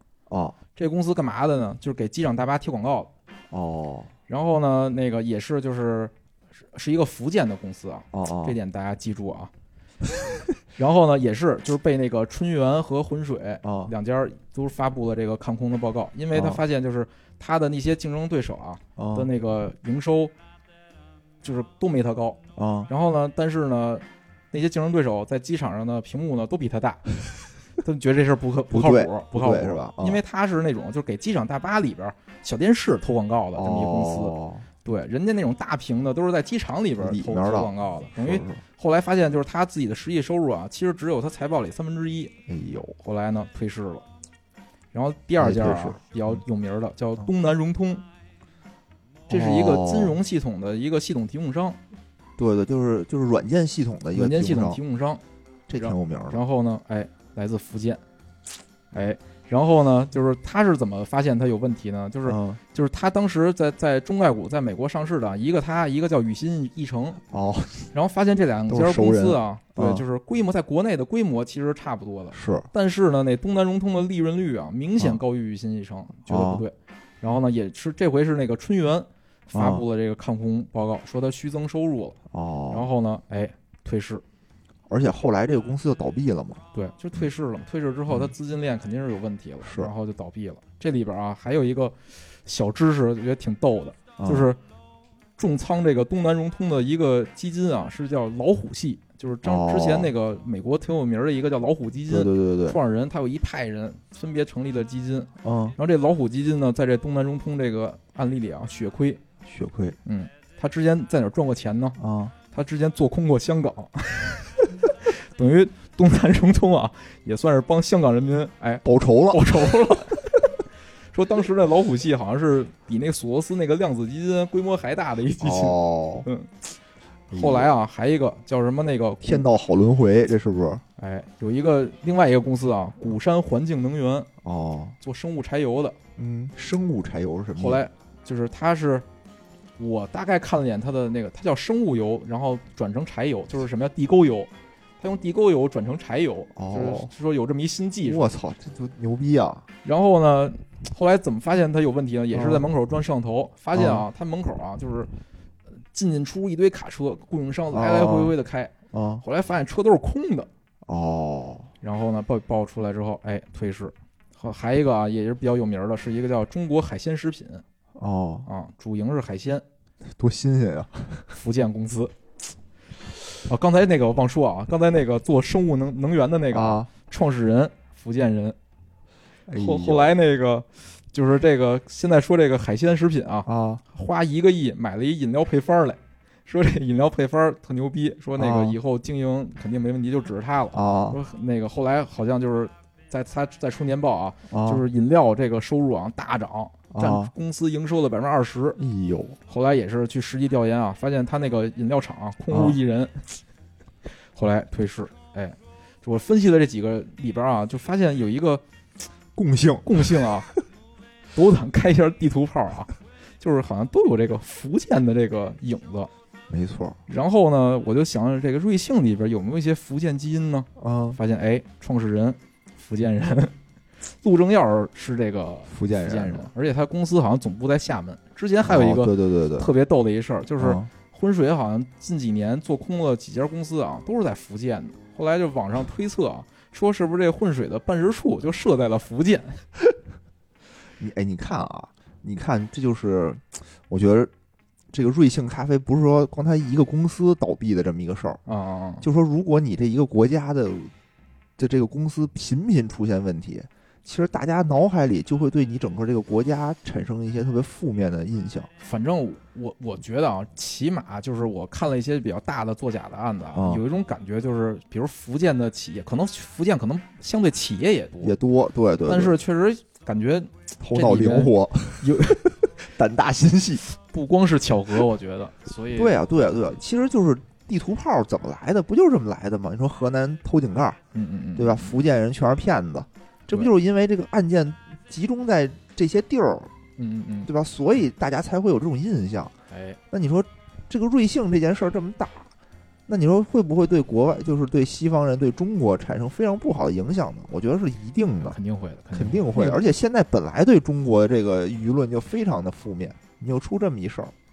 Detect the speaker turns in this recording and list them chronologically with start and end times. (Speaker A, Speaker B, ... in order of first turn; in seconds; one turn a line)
Speaker A: 0.3-0.6
Speaker B: 0.7-3.1
Speaker A: 3.5-4.1
Speaker B: 4.3-9.5
Speaker A: 8.1-8.6
Speaker B: 10.7-20.3
Speaker A: 13.6-13.9
Speaker A: 16.3-16.6
Speaker A: 18.9-19.3
Speaker B: 21.4-27.1
Speaker A: 22.6-22.9
Speaker B: 27.8-42.3
Speaker A: 28.7-30.2
Speaker A: 33.5-34.7
Speaker A: 37.0-38.6
Speaker A: 42.5-43.0
Speaker B: 43.0-44.0
Speaker B: 44.9-48.0
Speaker A: 45.4-46.4
Speaker B: 49.3-51.8
Speaker A: 49.3-50.2
Speaker A: 52.4-54.8
Speaker B: 54.1-55.2
Speaker A: 55.7-56.4
Speaker B: 55.8-58.0
Speaker B: 58.9-67.2
Speaker A: 62.3-62.6
Speaker A: 67.3-67.9
Speaker B: 67.9-82.2
Speaker A: 68.7-70.0
Speaker A: 72.3-72.7
Speaker A: 76.3-76.6
Speaker A: 79.5-79.8
Speaker A: 82.3-82.9
Speaker B: 82.7-84.2
Speaker A: 84.9-86.6
Speaker B: 86.7-94.6
Speaker A: 89.6-89.9
Speaker A: 94.2-94.5
Speaker B: 95.4-109.2
Speaker A: 99.4-100.1
Speaker A: 102.1-102.8
Speaker A: 105.4-105.8
Speaker A: 109.4-110.0
Speaker B: 110.0-112.0
Speaker A: 112.0-112.3
Speaker B: 112.5-120.4
Speaker A: 118.8-120.2
Speaker B: 121.1-126.7
Speaker A: 125.4-126.3
Speaker A: 127.3-127.7
Speaker B: 127.3-129.4
Speaker A: 129.2-130.8
Speaker B: 131.0-134.3
Speaker A: 134.4-135.0
Speaker B: 135.0-136.0
Speaker A: 136.2-137.8
Speaker B: 137.6-139.1
Speaker B: 139.8-148.3
Speaker A: 146.6-147.1
Speaker A: 148.0-149.6
Speaker B: 149.8-155.1
Speaker A: 152.3-152.7
Speaker A: 153.7-154.1
Speaker B: 155.9-160.5
Speaker A: 157.7-158.3
Speaker A: 158.9-159.2
Speaker A: 160.8-161.7
Speaker B: 161.8-167.6
Speaker A: 168.0-168.5
Speaker B: 168.4-169.6
Speaker A: 170.1-171.3
Speaker B: 171.3-172.1
Speaker B: 173.4-178.6
Speaker A: 176.5-176.9
Speaker A: 179.5-180.1
Speaker B: 179.5-198.8
Speaker A: 183.4-183.8
Speaker A: 188.3-188.8
Speaker A: 190.7-191.2
Speaker A: 194.5-194.8
Speaker A: 196.9-197.3
Speaker A: 198.8-199.4
Speaker B: 199.5-203.4
Speaker A: 202.5-202.8
Speaker B: 204.3-208.6
Speaker A: 209.3-210.6
Speaker B: 209.8-210.5
Speaker B: 211.3-216.1
Speaker A: 216.5-217.0
Speaker B: 217.1-239.7
Speaker A: 220.8-221.2
Speaker A: 225.7-226.5
Speaker A: 228.6-229.7
Speaker A: 230.6-230.9
Speaker A: 241.0-244.3
Speaker A: 244.9-248.4
Speaker B: 248.4-249.1
Speaker A: 249.0-250.9
Speaker A: 251.6-258.7
Speaker B: 258.8-268.3
Speaker A: 263.5-263.8
Speaker A: 268.2-269.4
Speaker B: 269.1-272.4
Speaker A: 270.8-273.8
Speaker B: 273.9-276.1
Speaker A: 275.9-281.0
Speaker B: 281.1-281.9
Speaker A: 281.6-286.7
Speaker B: 287.0-287.5
Speaker A: 287.4-289.5
Speaker B: 289.7-290.0
Speaker A: 290.1-292.5
Speaker A: 293.1-298.6
Speaker B: 298.4-299.8
Speaker A: 299.1-304.3